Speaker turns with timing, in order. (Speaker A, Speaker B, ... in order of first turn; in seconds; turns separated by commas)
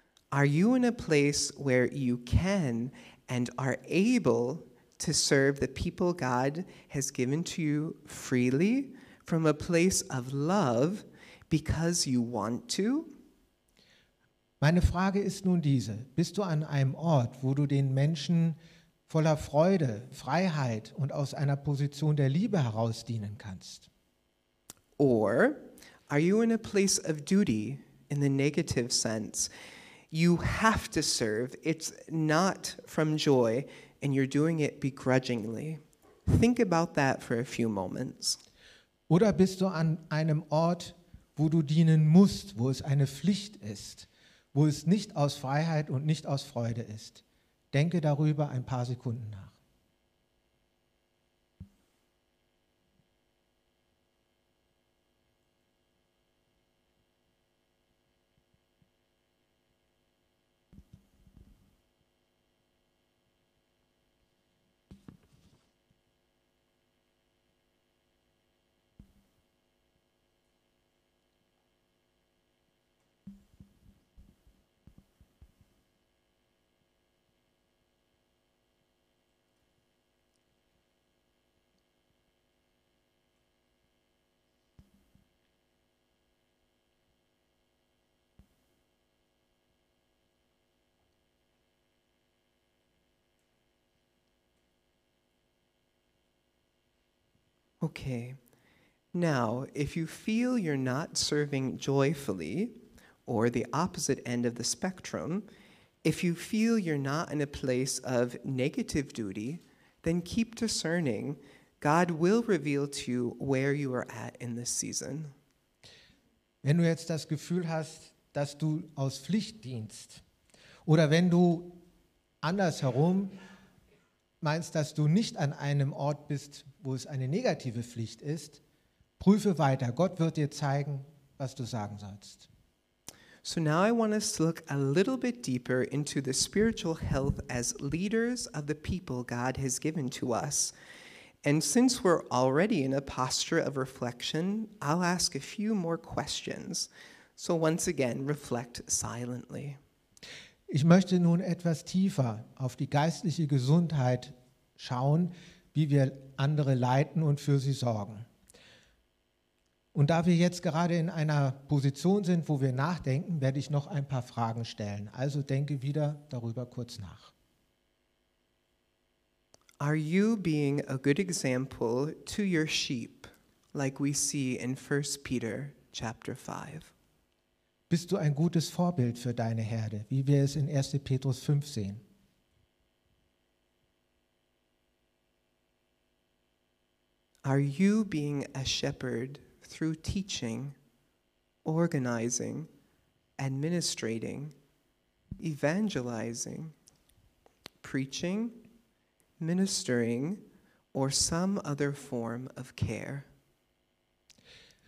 Speaker A: 0.3-13.1, Speaker B: 14.6-23.9, Speaker A: 25.0-29.5, Speaker A: 30.1-38.4, Speaker B: 39.1-49.6, Speaker A: 97.8-98.4, Speaker A: 99.1-105.5, Speaker A: 106.0-115.3, Speaker B: 116.6-120.2, Speaker B: 120.9-121.8, Speaker B: 122.4-123.4, Speaker B: 124.4-128.6, Speaker B: 129.2-132.5, Speaker A: 133.4-140.7, Speaker A: 141.4-149.8, Speaker B: 150.7-158.3, Speaker B: 159.9-167.3, Speaker A: 169.8-176.9, Speaker B: 177.9-182.0, Speaker A: 187.4-190.8, Speaker A: 191.6-192.7, Speaker A: 193.4-194.5, Speaker A: 195.4-196.7, Speaker A: 197.8-198.6, Speaker A: 199.4-200.4, Speaker A: 200.9-203.3